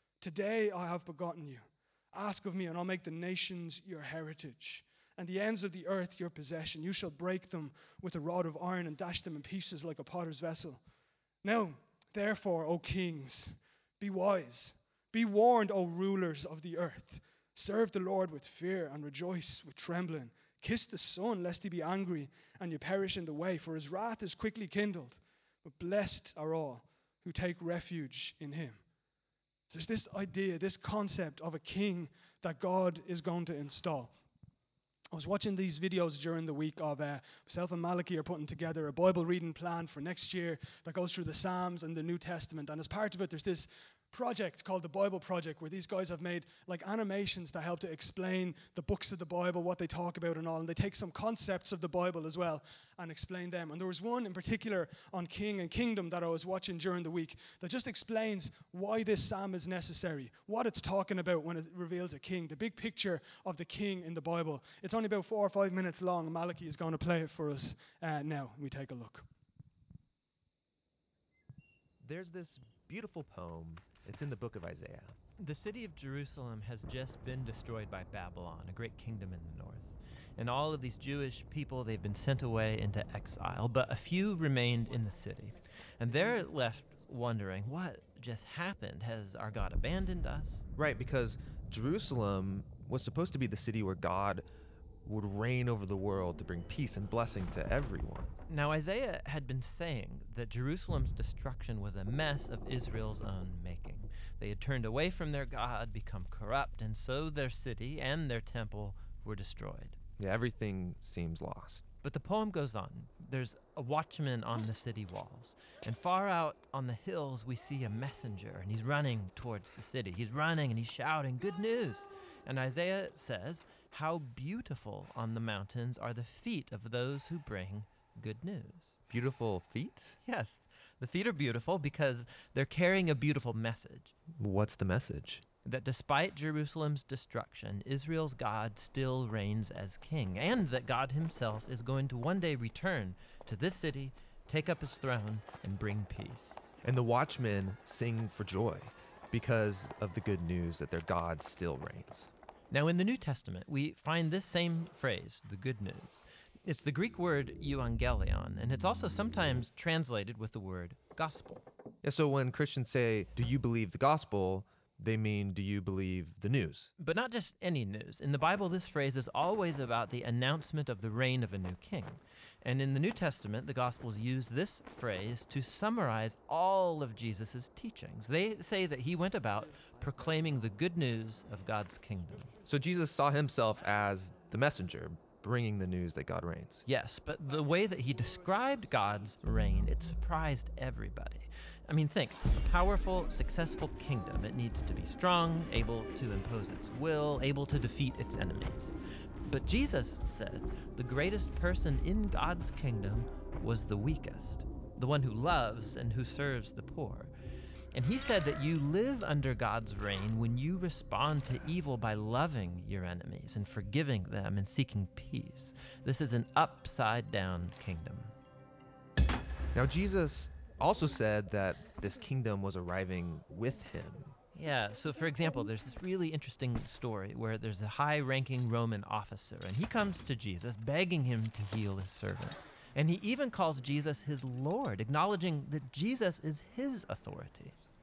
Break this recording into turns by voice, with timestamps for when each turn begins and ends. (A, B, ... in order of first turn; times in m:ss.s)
0:00.2-0:10.8 A
0:11.4-0:28.8 A
0:29.7-0:34.1 A
0:35.1-1:09.2 A
1:12.0-1:15.2 B
1:15.4-1:30.6 C
1:30.8-1:34.4 B
1:35.0-1:38.3 B
1:38.5-1:50.0 C
1:50.2-1:51.8 B
1:52.0-2:09.0 C
2:09.1-2:10.2 B
2:10.2-2:14.1 C
2:14.3-2:15.4 B
2:15.6-2:26.6 C
2:26.8-2:32.3 B
2:32.7-2:41.6 C
2:42.0-2:46.9 B
2:47.0-3:02.6 C
3:02.6-3:06.8 B
3:06.8-3:18.9 C
3:19.4-3:27.3 C
3:27.9-3:38.3 C
3:39.7-3:44.3 B
3:44.5-3:57.8 C